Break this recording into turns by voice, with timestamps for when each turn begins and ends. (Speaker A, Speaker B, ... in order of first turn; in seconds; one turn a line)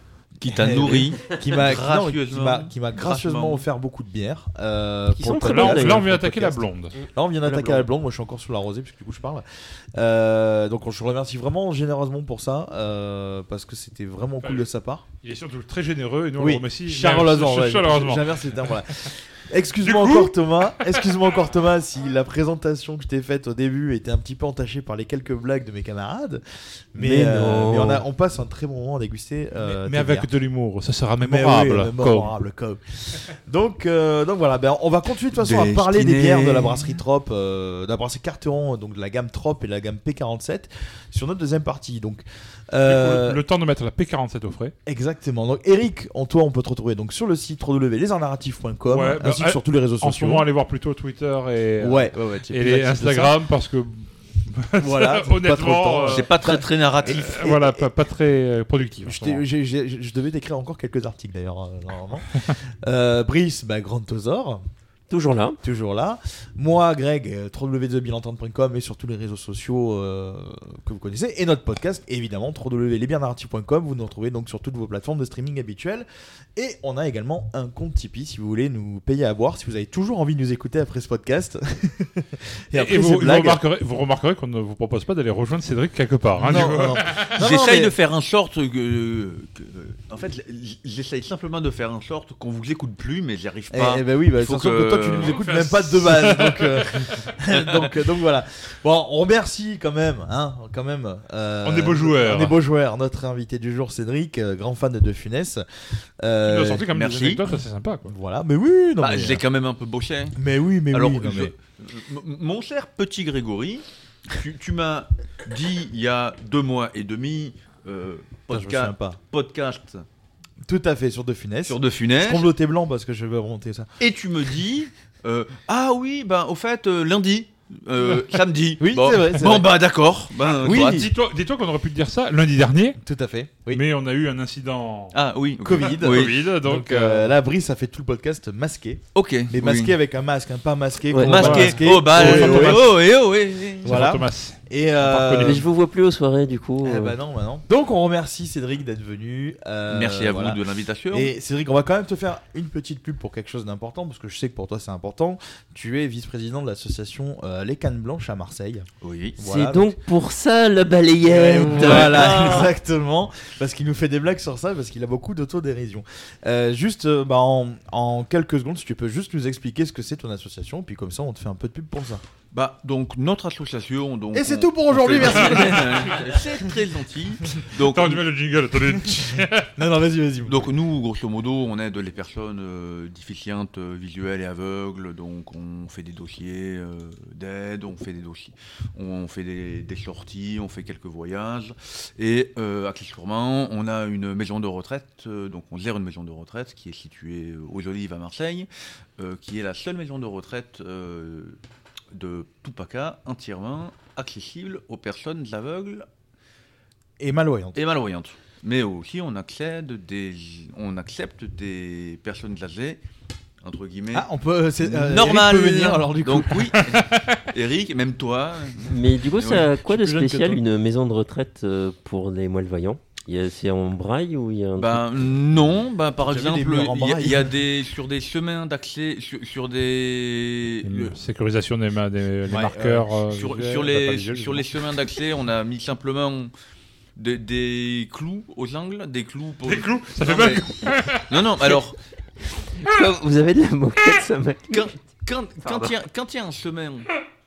Speaker A: 0.4-3.6
Speaker B: 0.4-15.1
Speaker C: 5.1-6.0
Speaker D: 5.4-7.0
Speaker C: 7.0-7.9
Speaker D: 14.4-14.7
Speaker D: 15.2-19.1
Speaker B: 16.4-26.4
Speaker D: 19.8-20.3
Speaker B: 26.9-30.3
Speaker C: 27.0-28.0
Speaker D: 29.7-32.3
Speaker B: 31.2-43.4
Speaker A: 35.4-36.9
Speaker D: 42.9-44.7
Speaker B: 44.9-50.5
Speaker D: 48.9-59.4
Speaker B: 51.8-53.4
Speaker B: 54.8-57.9
Speaker A: 56.1-57.3
Speaker B: 59.0-64.6
Speaker C: 65.1-65.6
Speaker B: 65.6-83.6
Speaker D: 82.7-87.3
Speaker B: 86.4-88.0
Speaker A: 87.4-95.3
Speaker B: 93.7-106.9
Speaker D: 95.3-97.2
Speaker D: 101.6-102.6
Speaker D: 106.5-108.1
Speaker A: 106.9-107.4
Speaker B: 108.1-109.4
Speaker A: 109.0-110.4
Speaker B: 110.4-111.5
Speaker A: 110.9-120.0
Speaker B: 118.5-119.2
Speaker B: 120.7-123.9
Speaker A: 121.7-122.5
Speaker A: 124.0-131.1
Speaker B: 128.8-129.8
Speaker B: 130.5-131.1
Speaker D: 130.6-133.0
Speaker B: 133.0-133.8
Speaker D: 133.7-135.2
Speaker A: 135.1-136.4
Speaker B: 135.6-143.0
Speaker D: 135.8-137.3
Speaker A: 139.1-139.9
Speaker D: 141.2-143.0
Speaker A: 141.2-144.1
Speaker D: 143.8-145.7
Speaker B: 143.8-145.7
Speaker C: 145.4-147.2
Speaker B: 146.8-160.0
Speaker A: 149.9-151.3
Speaker A: 159.0-159.4
Speaker C: 159.4-162.7
Speaker B: 161.2-172.2
Speaker A: 161.8-162.6
Speaker A: 172.5-178.2
Speaker B: 174.3-176.5
Speaker D: 175.4-176.1
Speaker D: 177.9-179.7
Speaker B: 179.8-180.7
Speaker A: 180.5-201.6
Speaker A: 202.1-206.1
Speaker B: 207.2-207.8
Speaker A: 207.8-213.0
Speaker A: 213.6-214.3
Speaker B: 214.1-216.8
Speaker A: 214.8-219.7
Speaker C: 218.9-225.1
Speaker B: 219.8-220.6
Speaker A: 224.8-231.2
Speaker B: 226.2-227.6
Speaker D: 230.8-234.7
Speaker B: 232.5-233.1
Speaker A: 233.3-236.5
Speaker A: 237.2-242.0
Speaker D: 239.7-241.4
Speaker C: 242.8-244.9
Speaker A: 244.7-247.1
Speaker C: 245.6-246.0